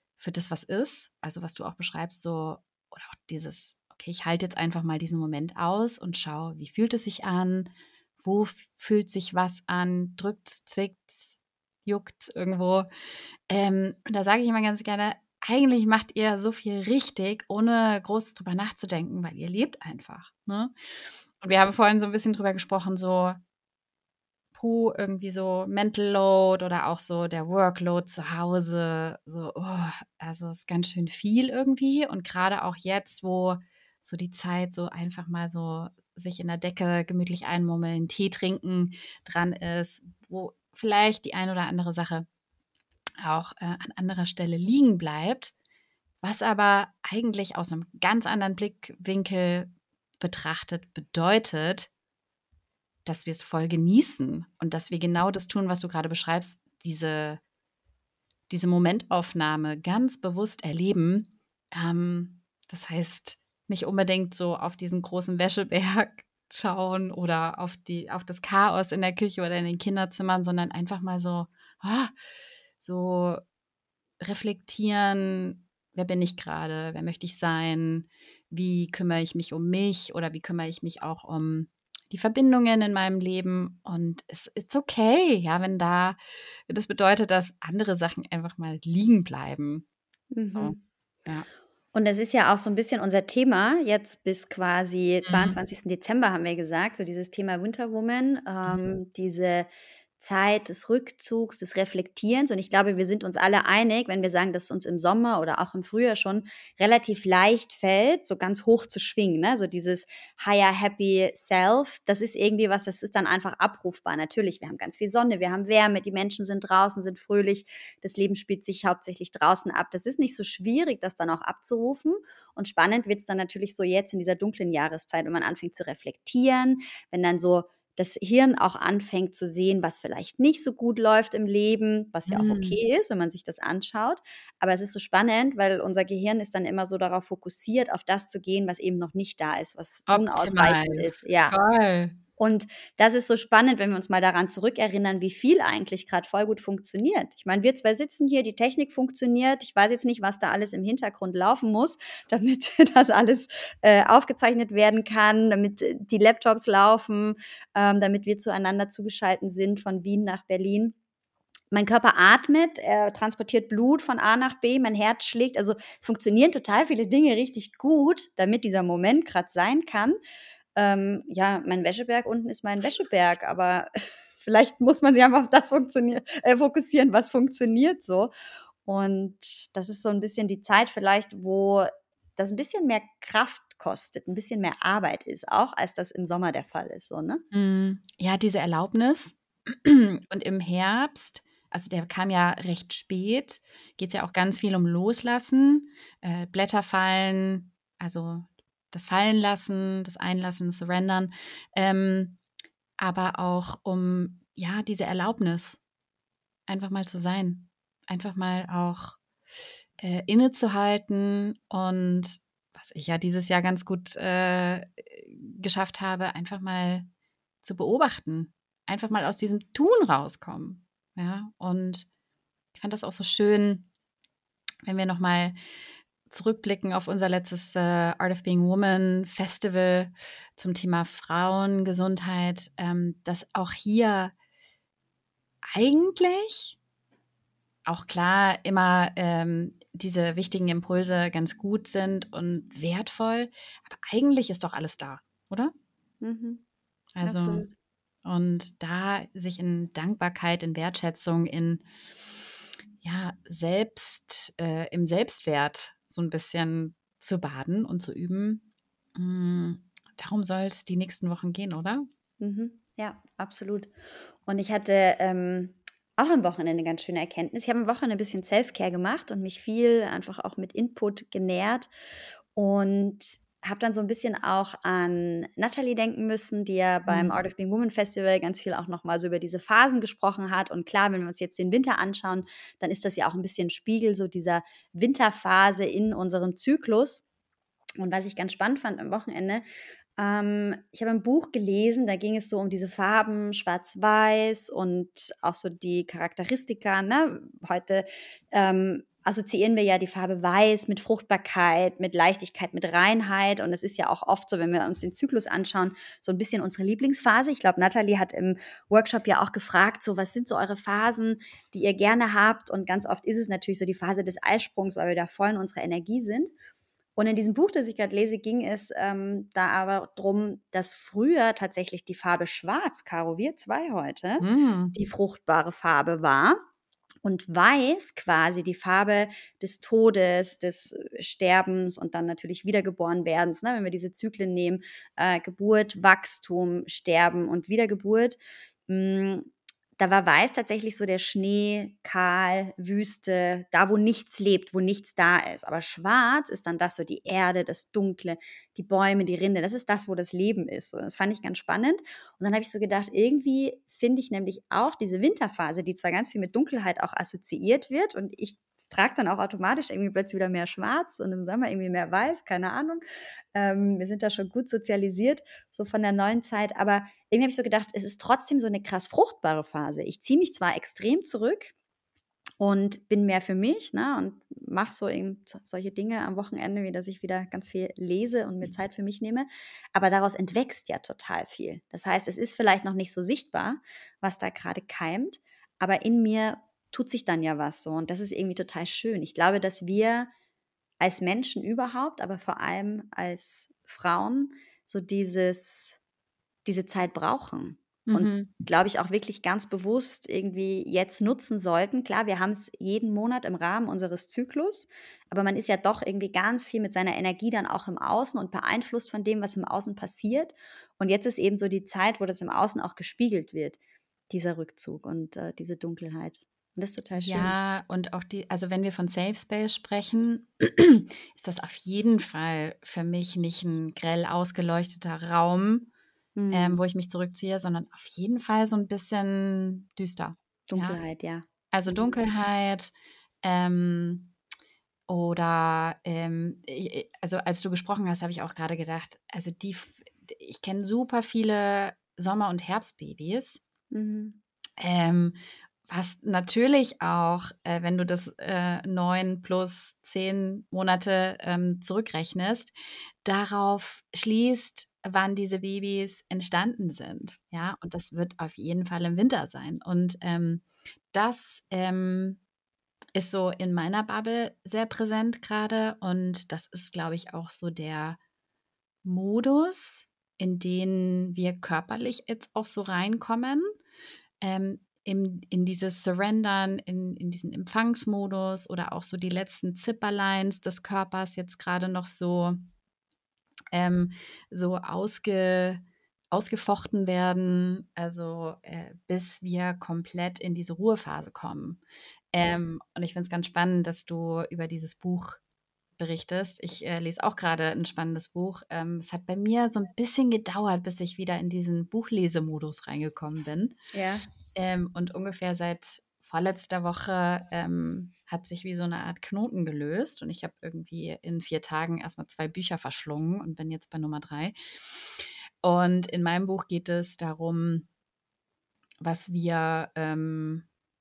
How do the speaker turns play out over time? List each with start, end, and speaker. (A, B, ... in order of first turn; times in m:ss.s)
0:00.2-0:07.7 A
0:08.2-0:12.9 A
0:13.5-0:20.7 A
0:21.4-0:23.4 A
0:24.5-0:42.2 A
0:43.2-0:45.5 A
0:46.2-0:51.9 A
0:53.0-0:57.4 A
0:58.5-1:12.1 A
1:12.8-1:13.4 A
1:14.2-1:29.8 A
1:30.3-1:30.8 B
1:30.5-1:31.4 A
1:31.9-2:21.6 B
1:35.2-1:35.6 A
2:12.3-2:12.8 A
2:20.1-2:22.2 A
2:22.4-2:40.9 B
2:41.7-2:50.2 B
2:50.8-2:53.9 B
2:54.4-2:58.3 B
2:58.8-3:07.4 B
3:07.5-3:22.4 A
3:23.0-3:25.8 A
3:26.7-3:29.2 A
3:30.0-3:37.1 A
3:37.6-3:42.1 A
3:42.7-3:43.9 A
3:44.8-3:45.6 A
3:46.3-3:54.3 A
3:55.7-3:56.8 A
3:57.8-4:05.7 A
4:06.2-4:06.6 B
4:07.2-4:07.6 A
4:07.2-4:07.7 B
4:08.2-4:11.8 A
4:13.0-4:18.6 A
4:19.2-4:22.1 A
4:22.4-4:23.9 B
4:24.4-4:31.9 B
4:32.6-4:47.2 B
4:37.1-4:37.4 A
4:48.0-4:49.6 B
4:50.2-5:16.5 B
5:17.2-5:26.6 B
5:24.4-5:24.9 A
5:27.2-6:03.0 B
6:03.5-6:11.7 B
6:12.6-6:30.3 B
6:31.0-6:36.0 B
6:36.6-6:53.8 B
6:38.1-6:38.5 A
6:54.3-6:57.5 B
6:57.2-7:05.9 A
7:06.4-7:06.8 B
7:06.5-7:11.0 A
7:10.7-7:12.1 B
7:11.7-7:12.9 A
7:13.4-7:14.3 A
7:15.1-7:23.6 A
7:23.9-7:24.4 B
7:24.8-7:25.4 A
7:25.9-7:42.4 A
7:43.1-7:48.2 A
7:49.0-7:53.7 A
7:54.4-8:02.6 A
8:03.7-8:11.8 A
8:12.3-8:15.4 A
8:16.0-8:23.8 A
8:23.9-8:24.2 B
8:24.5-8:34.5 A
8:35.2-8:37.9 A
8:39.0-8:40.7 A